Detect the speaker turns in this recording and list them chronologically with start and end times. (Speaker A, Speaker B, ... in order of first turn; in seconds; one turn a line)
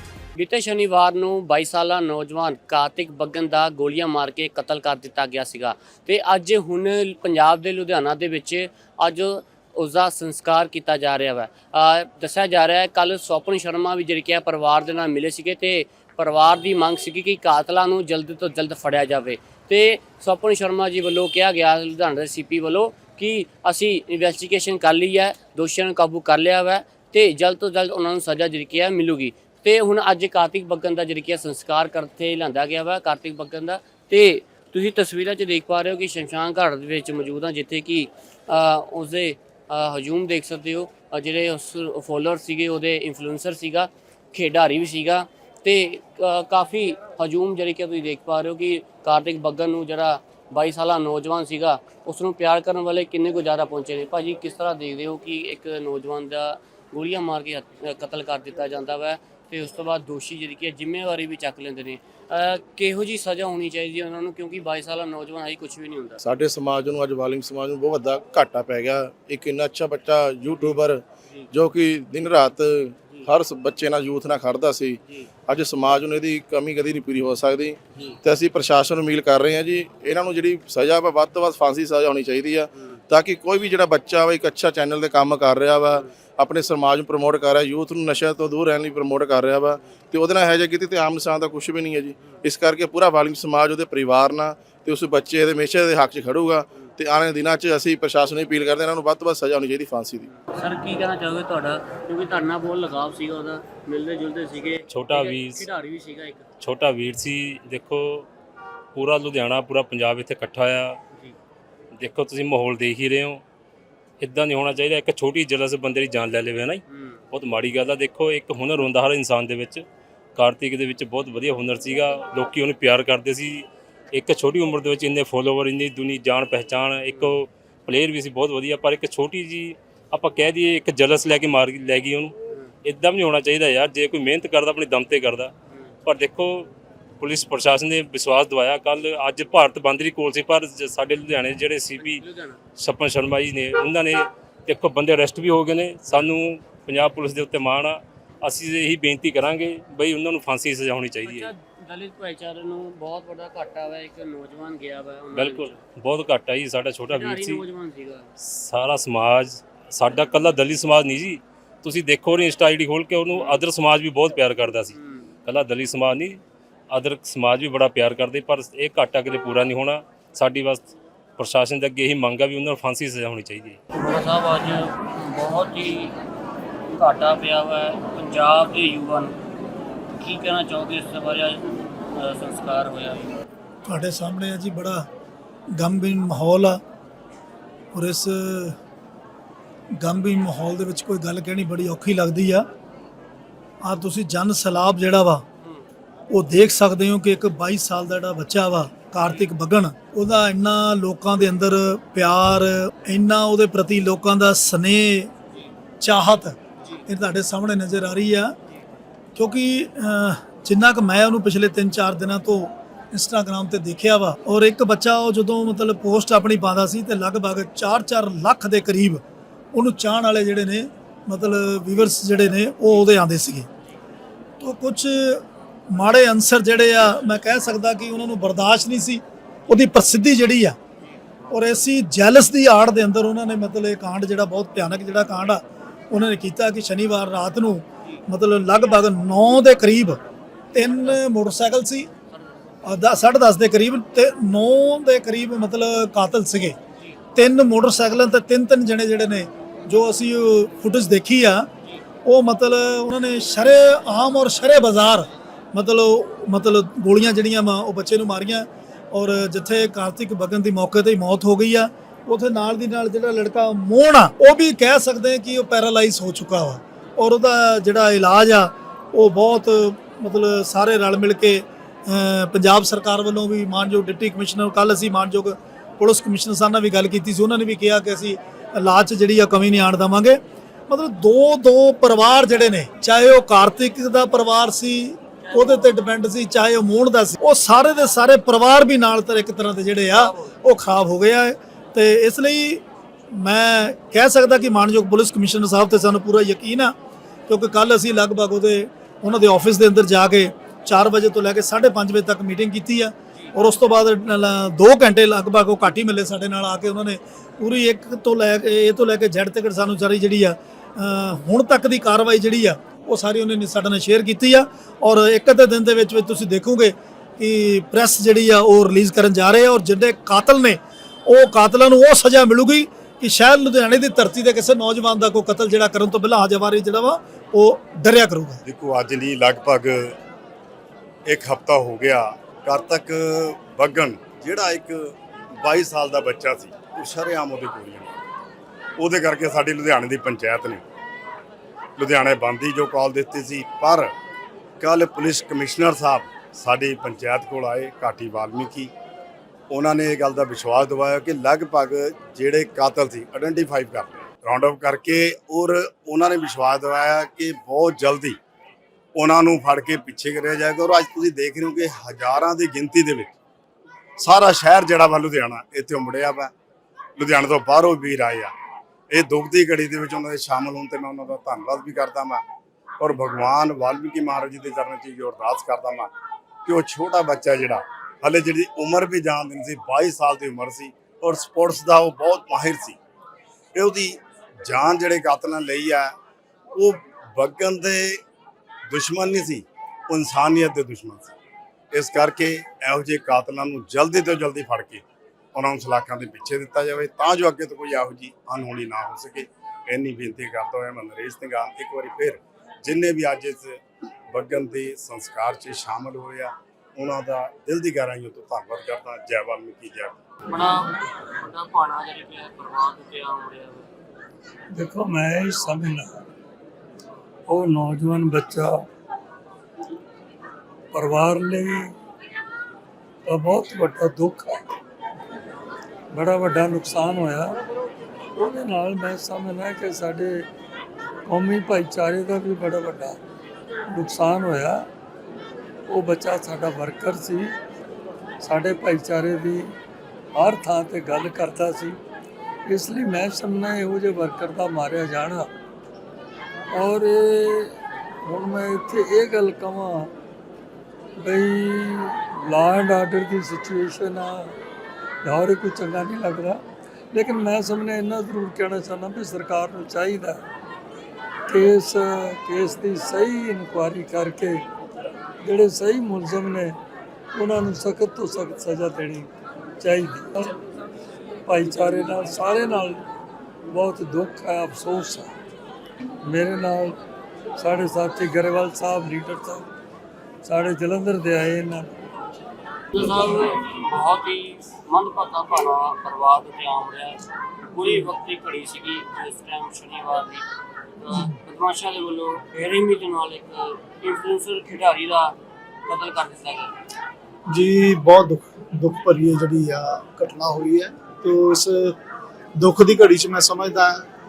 Speaker A: 0.4-66.2
Speaker B: 66.2-100.3
Speaker A: 100.4-106.4
Speaker C: 104.9-105.6
Speaker C: 106.6-108.3
Speaker C: 108.9-111.0
Speaker C: 112.0-113.4
Speaker C: 114.2-119.8
Speaker A: 116.9-117.2
Speaker C: 120.3-132.3
Speaker C: 132.8-135.5
Speaker C: 136.0-136.7
Speaker C: 137.2-142.2
Speaker A: 141.9-142.6
Speaker C: 142.8-151.5
Speaker A: 151.2-155.8
Speaker C: 155.3-157.6
Speaker A: 157.1-158.3
Speaker C: 158.4-166.4
Speaker A: 163.3-163.6
Speaker A: 164.9-165.2
Speaker C: 166.9-173.8
Speaker A: 173.9-176.1
Speaker A: 176.9-179.3
Speaker A: 180.2-181.6
Speaker A: 182.1-183.3
Speaker D: 183.8-185.1
Speaker D: 185.8-186.8
Speaker D: 187.9-188.8
Speaker D: 190.0-192.7
Speaker D: 193.8-195.4
Speaker D: 196.3-205.3
Speaker D: 206.0-208.5
Speaker D: 209.3-219.2
Speaker D: 219.7-223.7
Speaker D: 224.6-230.8
Speaker D: 231.5-240.2
Speaker D: 240.7-242.1
Speaker A: 240.8-241.2
Speaker D: 242.8-246.8
Speaker D: 247.3-251.7
Speaker D: 252.2-292.8
Speaker A: 285.5-285.8
Speaker D: 293.3-296.9
Speaker D: 297.5-328.6
Speaker E: 328.6-330.1
Speaker E: 331.3-338.1
Speaker E: 339.0-340.8
Speaker E: 342.0-344.1
Speaker E: 344.8-348.9
Speaker E: 349.7-358.4
Speaker E: 359.1-363.3
Speaker E: 364.2-366.5
Speaker E: 367.2-368.5
Speaker E: 369.1-372.4
Speaker E: 373.0-376.1
Speaker E: 376.6-383.0
Speaker E: 383.8-386.1
Speaker E: 386.8-388.2
Speaker E: 388.9-391.3
Speaker E: 391.9-395.0
Speaker E: 395.5-403.8
Speaker E: 404.3-410.1
Speaker A: 410.5-413.9
Speaker F: 414.7-416.2
Speaker F: 417.5-418.8
Speaker F: 420.9-421.9
Speaker F: 423.2-424.6
Speaker F: 426.1-427.6
Speaker F: 428.4-430.5
Speaker F: 431.2-433.2
Speaker F: 433.9-434.9
Speaker F: 435.9-437.6
Speaker F: 438.4-439.8
Speaker F: 440.3-442.0
Speaker F: 442.6-445.5
Speaker F: 446.7-450.1
Speaker F: 451.2-454.6
Speaker F: 455.2-460.4
Speaker F: 461.5-464.6
Speaker F: 465.4-466.8
Speaker F: 467.3-470.5
Speaker F: 471.4-473.0
Speaker F: 473.7-475.3
Speaker F: 476.2-477.0
Speaker F: 477.6-479.7
Speaker F: 480.4-481.9
Speaker A: 482.9-490.4
Speaker A: 491.0-495.3
Speaker A: 495.9-496.7
Speaker G: 497.5-501.9
Speaker G: 502.6-504.0